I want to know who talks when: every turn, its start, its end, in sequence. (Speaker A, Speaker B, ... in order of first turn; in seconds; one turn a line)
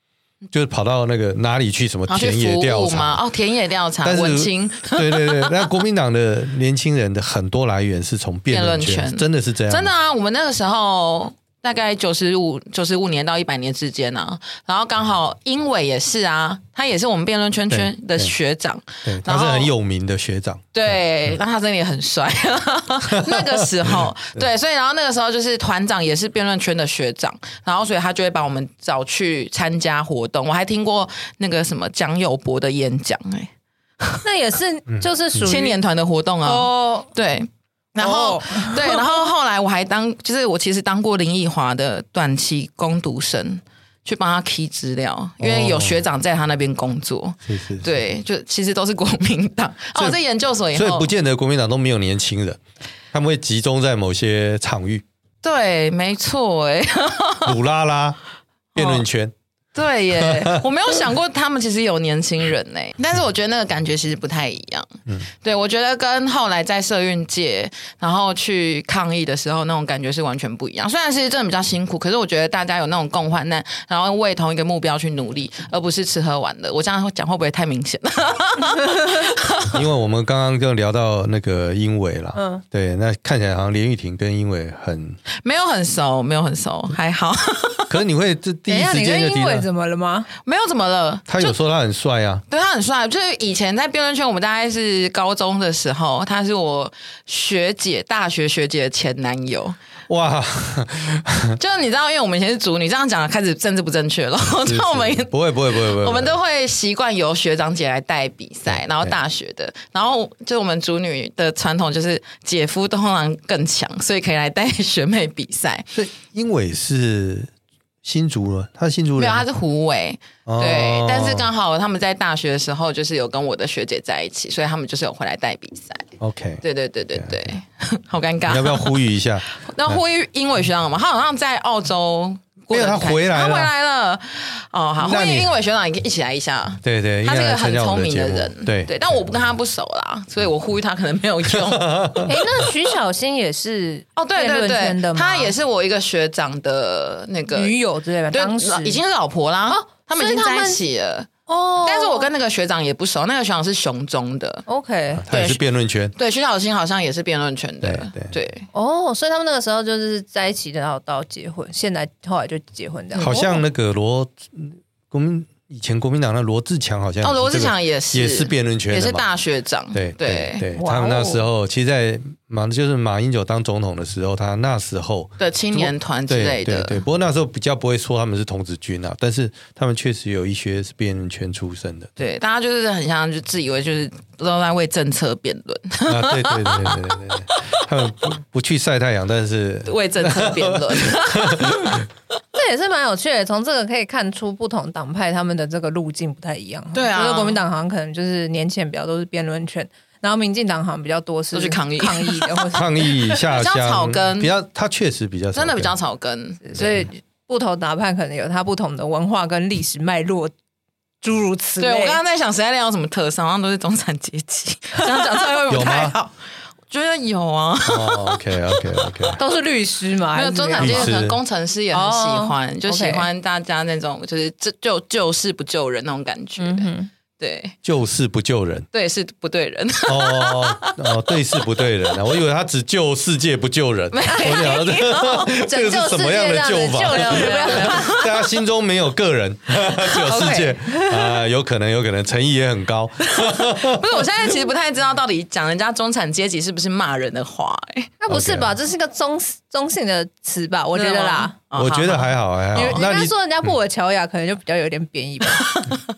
Speaker A: 0.5-3.2
Speaker B: 2.1-5.7
Speaker A: 4.0-9.9
Speaker B: 8.5-19.7
Speaker A: 17.7-18.3
Speaker A: 19.0-20.7
Speaker B: 20.7-33.5
Speaker A: 23.1-23.9
Speaker C: 34.2-35.8
Speaker A: 34.9-35.5
Speaker B: 35.4-51.1
Speaker C: 36.4-37.1
Speaker C: 38.0-39.2
Speaker A: 45.4-46.0
Speaker A: 47.5-47.9
Speaker A: 50.7-52.6
Speaker A: 53.1-55.0
Speaker B: 55.4-57.5
Speaker A: 57.4-58.2
Speaker B: 58.7-59.0
Speaker A: 58.8-59.3
Speaker B: 59.7-64.9
Speaker A: 60.1-60.6
Speaker B: 65.4-79.8
Speaker A: 79.7-85.2
Speaker C: 82.3-82.6
Speaker B: 85.4-87.9
Speaker A: 87.9-89.7
Speaker C: 88.7-90.3
Speaker B: 90.5-91.5
Speaker A: 91.3-92.4
Speaker B: 92.5-99.8
Speaker A: 100.1-101.6
Speaker B: 101.6-115.9
Speaker A: 104.6-106.4
Speaker A: 108.7-109.1
Speaker A: 115.9-117.5
Speaker A: 118.0-119.5
Speaker B: 119.2-126.1
Speaker A: 120.5-121.5
Speaker A: 126.2-126.6
Speaker B: 126.6-129.0
Speaker A: 127.2-127.5
Speaker A: 128.5-130.0
Speaker B: 129.6-142.3
Speaker A: 132.7-133.7
Speaker A: 135.0-135.5
Speaker A: 136.8-138.9
Speaker A: 141.5-142.3
Speaker C: 142.2-145.5
Speaker B: 144.2-147.8
Speaker C: 147.5-149.0
Speaker B: 148.3-151.3
Speaker C: 149.7-150.8
Speaker C: 151.5-152.3
Speaker B: 151.8-154.6
Speaker C: 154.7-155.2
Speaker A: 155.2-156.1
Speaker B: 155.3-155.6
Speaker B: 156.2-158.7
Speaker A: 157.8-158.3
Speaker C: 158.7-163.6
Speaker B: 163.1-163.4
Speaker A: 163.2-169.2
Speaker B: 167.2-170.7
Speaker A: 169.9-182.1
Speaker C: 170.7-171.4
Speaker B: 175.4-177.0
Speaker B: 182.2-187.6
Speaker A: 186.0-192.0
Speaker B: 189.8-192.0
Speaker C: 192.5-203.3
Speaker B: 196.9-197.6
Speaker B: 201.5-202.7
Speaker A: 202.7-205.9
Speaker B: 203.4-204.5
Speaker B: 205.5-206.8
Speaker C: 206.6-210.5
Speaker C: 211.2-212.2
Speaker B: 211.8-216.3
Speaker A: 215.7-216.1
Speaker B: 216.9-219.3
Speaker A: 217.8-219.4
Speaker C: 219.4-221.2
Speaker B: 220.3-227.7
Speaker A: 220.8-221.4
Speaker C: 221.9-223.3
Speaker C: 226.6-227.1
Speaker A: 227.8-228.9
Speaker B: 228.9-231.4
Speaker A: 230.1-244.0
Speaker B: 234.1-235.5
Speaker C: 234.3-238.2
Speaker B: 237.1-238.4
Speaker C: 240.3-241.2
Speaker B: 243.3-248.1
Speaker C: 248.2-251.5
Speaker A: 248.3-248.7
Speaker B: 250.9-252.3
Speaker A: 251.7-253.3
Speaker C: 252.7-255.7
Speaker B: 255.5-256.0